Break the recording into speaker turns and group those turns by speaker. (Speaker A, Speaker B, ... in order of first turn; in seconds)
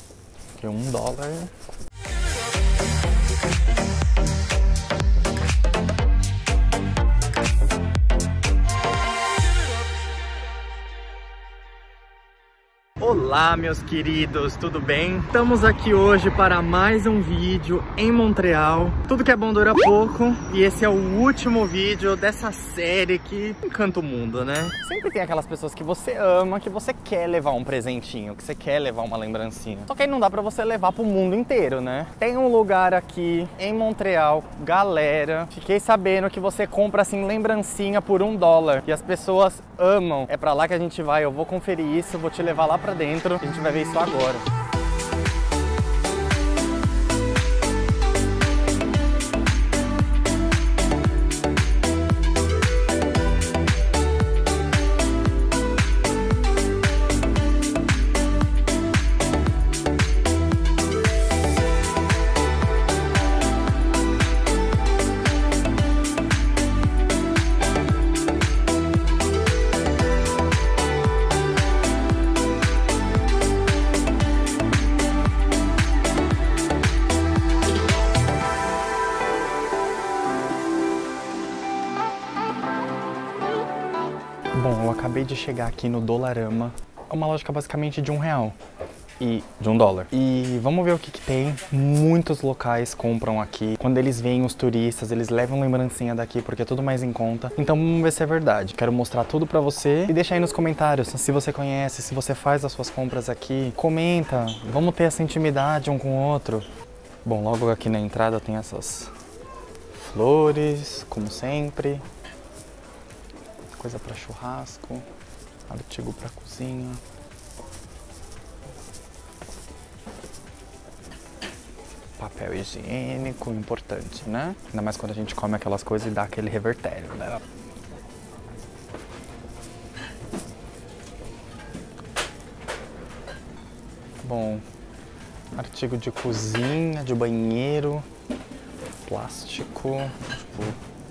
Speaker A: 0.6-1.5, 13.0-44.4, 84.5-88.6, 89.2-106.7, 107.2-109.1, 109.9-112.0, 113.7-115.0, 115.7-117.0, 122.2-127.4, 134.2-134.6, 135.5-138.1, 139.1-140.8